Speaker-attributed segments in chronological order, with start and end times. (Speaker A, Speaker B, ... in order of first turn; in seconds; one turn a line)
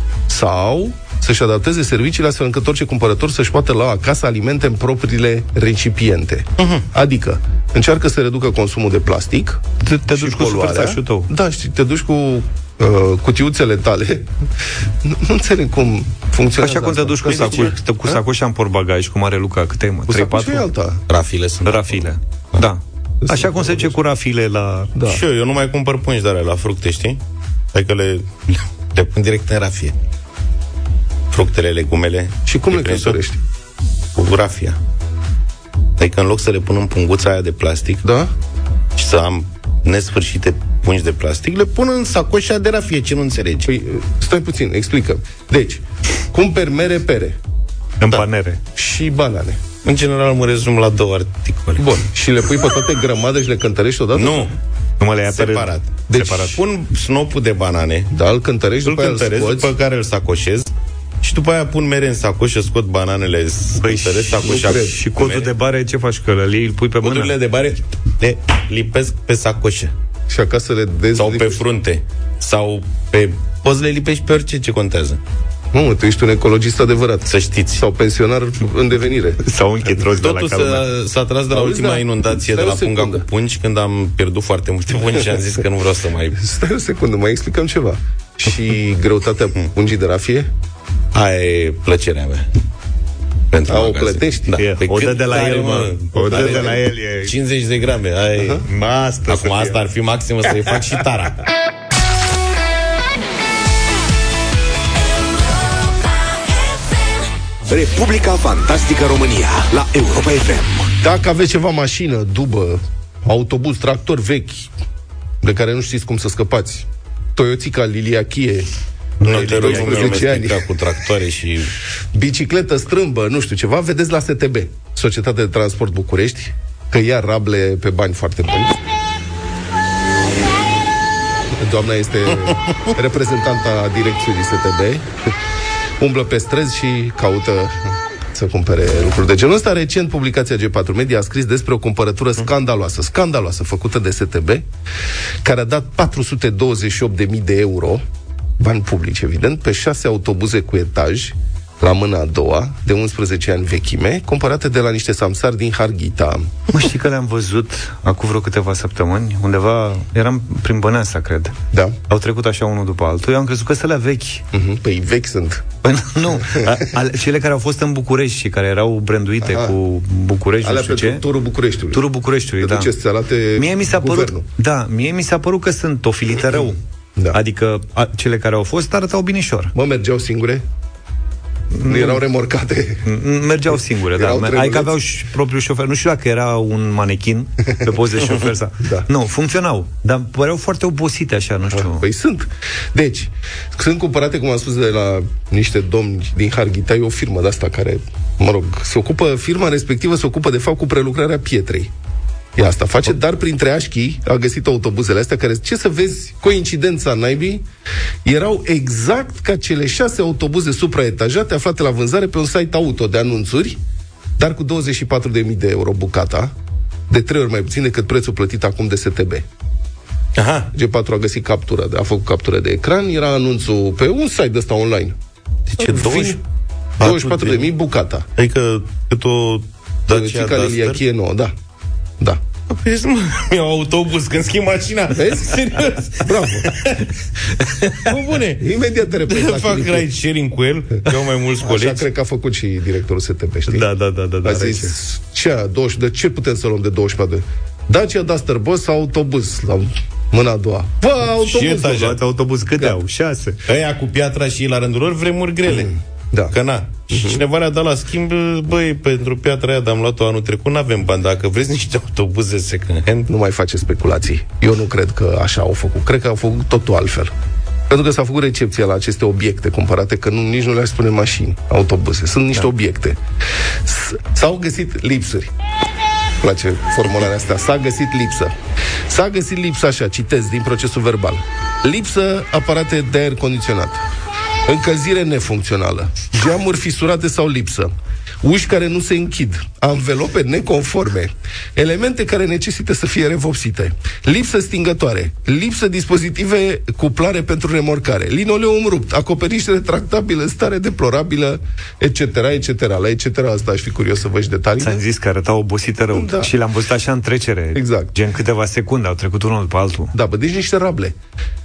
Speaker A: 0.3-14.3
Speaker B: 6.6-6.8
Speaker C: 9.8-11.3
Speaker A: 15.0-18.2
Speaker C: 16.6-20.7
Speaker B: 17.3-17.7
Speaker A: 20.1-21.0
Speaker B: 21.1-22.0
Speaker C: 21.7-24.9
Speaker A: 23.2-24.0
Speaker A: 24.9-25.2
Speaker B: 25.1-27.2
Speaker B: 27.7-29.9
Speaker B: 31.3-33.2
Speaker A: 32.5-33.4
Speaker B: 34.1-34.8
Speaker B: 36.0-38.0
Speaker A: 38.0-38.3
Speaker B: 39.0-43.7
Speaker A: 43.6-47.4
Speaker C: 48.0-48.6
Speaker A: 48.8-49.6
Speaker B: 49.8-51.9
Speaker A: 51.8-54.5
Speaker B: 54.1-54.5
Speaker C: 55.0-56.6
Speaker B: 55.3-58.1
Speaker A: 56.1-56.6
Speaker A: 58.1-59.7
Speaker B: 58.9-60.7
Speaker B: 61.2-65.5
Speaker C: 63.8-67.3
Speaker A: 64.4-65.0
Speaker B: 67.0-69.9
Speaker A: 70.3-71.6
Speaker B: 71.2-75.2
Speaker A: 75.7-79.4
Speaker B: 77.3-77.8
Speaker C: 79.4-80.9
Speaker B: 80.2-86.4
Speaker A: 81.5-83.3
Speaker A: 86.4-90.5
Speaker B: 91.1-92.5
Speaker B: 93.5-98.7
Speaker A: 93.7-94.6
Speaker C: 94.6-97.3
Speaker A: 96.2-96.8
Speaker A: 98.4-98.6
Speaker C: 98.7-99.8
Speaker B: 99.3-101.4
Speaker D: 107.7-110.9
Speaker A: 111.0-114.7
Speaker A: 115.4-118.7
Speaker C: 119.2-120.3
Speaker A: 119.2-120.7
Speaker B: 119.2-121.7
Speaker A: 122.1-128.8
Speaker A: 131.5-135.1
Speaker B: 132.4-132.9
Speaker A: 136.0-144.7
Speaker A: 145.4-148.0
Speaker A: 148.6-156.5
Speaker C: 156.7-161.6
Speaker C: 162.1-164.4
Speaker A: 164.5-165.7
Speaker C: 165.8-171.2
Speaker A: 166.4-166.8
Speaker A: 169.4-169.8
Speaker A: 170.6-172.1
Speaker C: 171.9-172.9
Speaker A: 172.6-174.5
Speaker C: 173.6-176.8
Speaker C: 177.3-179.7
Speaker A: 179.7-180.6
Speaker C: 181.7-182.2
Speaker A: 181.9-183.1
Speaker C: 183.1-192.1
Speaker A: 183.7-184.9
Speaker A: 188.8-189.1
Speaker A: 191.7-201.9
Speaker A: 202.6-207.7
Speaker A: 208.2-213.8
Speaker A: 214.4-216.5
Speaker A: 217.1-219.4
Speaker B: 220.4-220.7
Speaker A: 220.7-225.2
Speaker B: 225.7-226.4
Speaker A: 225.8-226.4
Speaker B: 227.0-227.7
Speaker A: 227.0-228.3
Speaker B: 228.4-231.0
Speaker A: 230.1-231.5
Speaker B: 232.7-238.7
Speaker A: 235.1-235.6
Speaker A: 236.2-236.7
Speaker A: 238.6-240.1
Speaker B: 239.3-242.1
Speaker A: 241.6-243.9
Speaker C: 243.7-244.9
Speaker A: 244.4-252.2
Speaker B: 251.4-252.2
Speaker C: 251.8-253.6
Speaker B: 253.7-255.9
Speaker A: 255.7-256.6
Speaker B: 256.5-263.3
Speaker A: 257.1-257.4
Speaker A: 263.3-267.3
Speaker A: 267.9-273.2
Speaker A: 273.9-275.5
Speaker A: 276.4-278.6
Speaker A: 279.1-284.1
Speaker A: 284.7-287.9
Speaker A: 288.4-305.0
Speaker C: 304.8-310.1
Speaker A: 306.1-306.5
Speaker A: 307.8-308.1
Speaker A: 310.1-311.2